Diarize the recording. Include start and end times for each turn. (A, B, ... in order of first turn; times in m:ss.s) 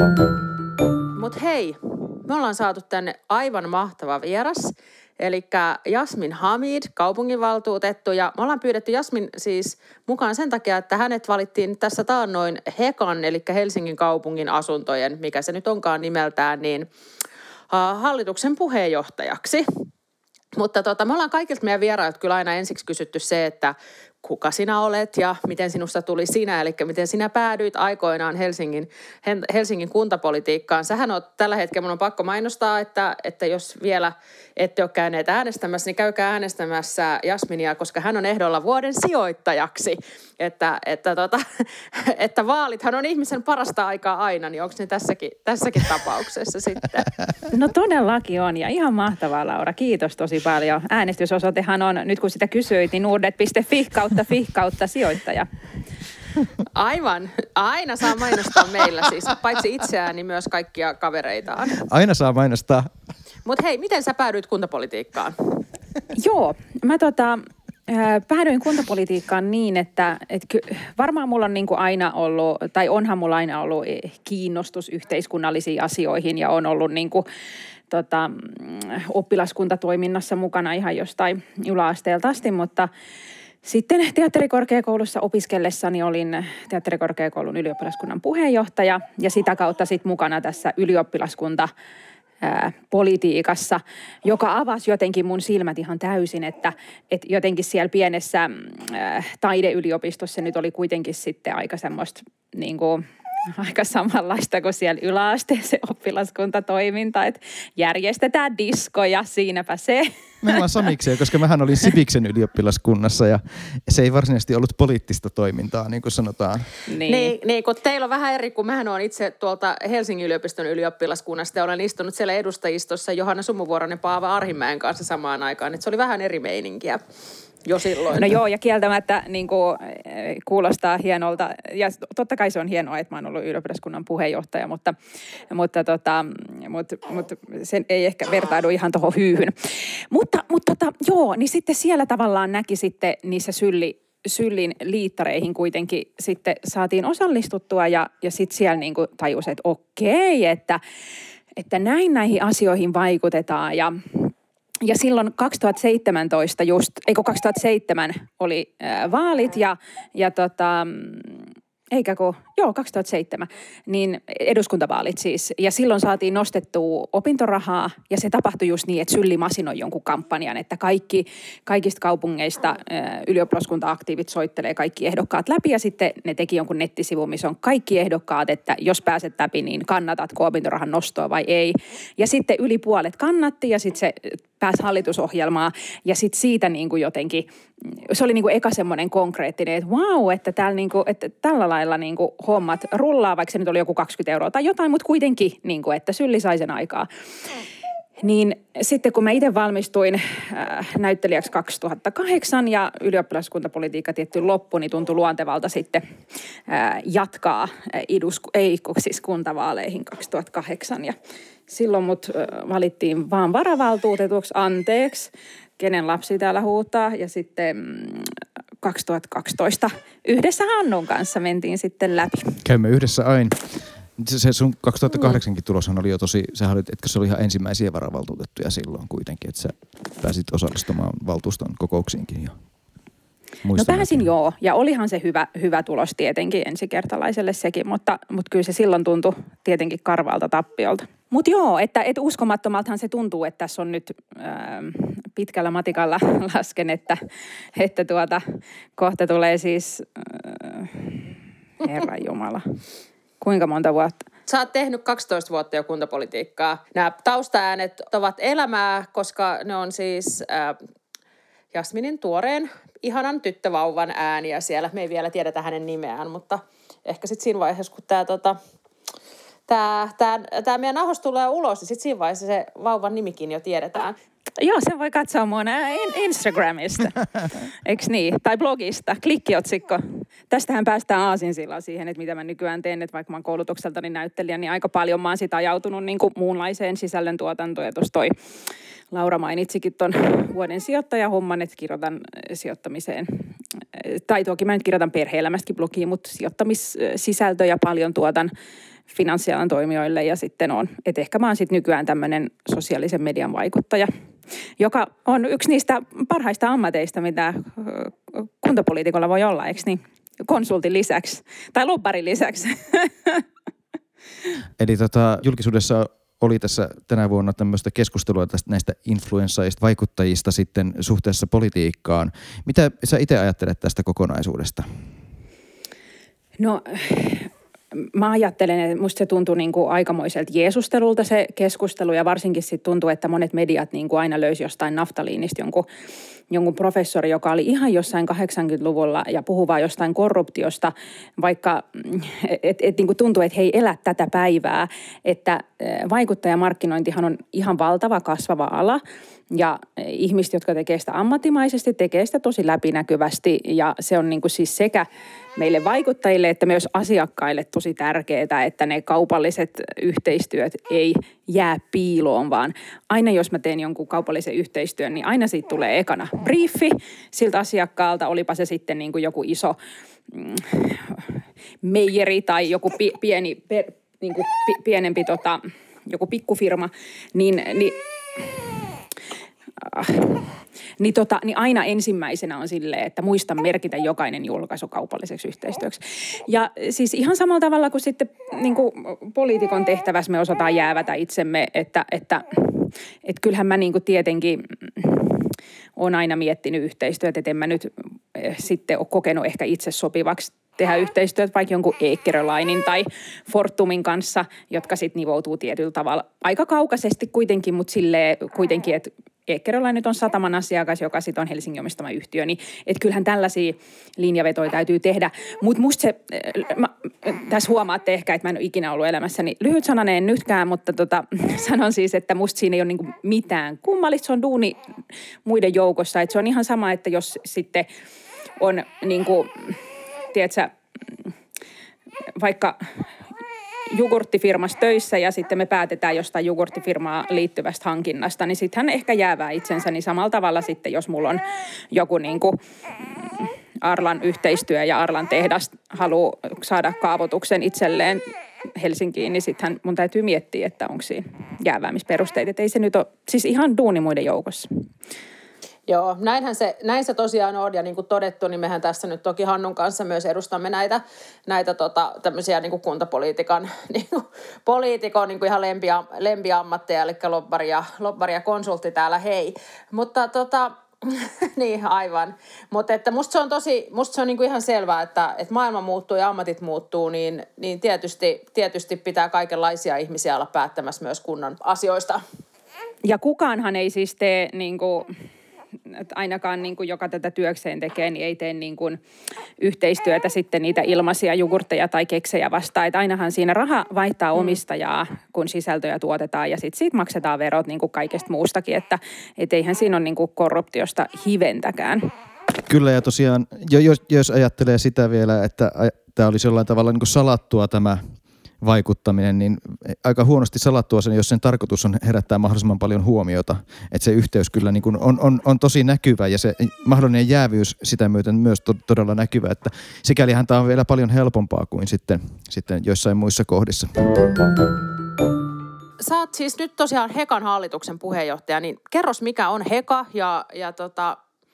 0:01.2-0:16.9 A
0:17.7-0:19.8 A
0:20.6-0:47.1 A
0:47.5-0:55.5 B
0:56.7-1:01.8 A
1:01.8-1:02.9 C
1:03.4-1:05.6 A
1:06.1-1:17.2 B
1:17.9-1:22.9 B
1:23.6-1:31.7 B
1:32.4-1:50.8 B
1:50.4-1:56.7 C
1:56.9-1:57.3 B
1:57.0-2:07.0 A
2:07.6-2:08.3 A
2:08.1-2:14.9 B
2:15.5-2:19.5 B
2:20.1-2:30.8 B
2:31.6-3:17.1 B
3:18.2-3:26.0 B
3:26.7-3:31.1 B
3:31.7-3:42.6 B
3:42.6-3:52.6 C
3:53.6-3:54.3 C
3:53.8-4:07.2 B
4:07.8-4:08.4 B
4:09.0-4:11.3 B
4:11.8-4:12.8 B
4:13.4-4:14.3 B
4:14.5-4:20.8 A
4:21.7-4:28.6 A
4:29.7-4:34.2 A
4:34.6-4:48.3 B
4:49.1-4:58.5 B
4:59.1-5:04.1 B
5:04.8-5:13.4 B
5:14.8-5:24.8 C
5:26.6-5:35.8 B
5:36.5-5:55.0 B
5:55.6-6:09.8 B
6:10.3-6:18.7 B
6:19.8-7:04.8 B
7:05.4-7:07.9 B
7:08.6-7:09.8 B
7:10.3-7:10.7 B
7:12.4-7:12.8 B
7:13.9-7:28.2 B
7:28.8-7:34.7 B
7:35.9-8:02.2 A
8:03.0-8:05.1 B
8:05.9-8:09.0 B
8:09.6-8:22.1 B
8:22.7-8:28.0 C
8:28.6-8:44.0 C
8:46.0-8:51.2 A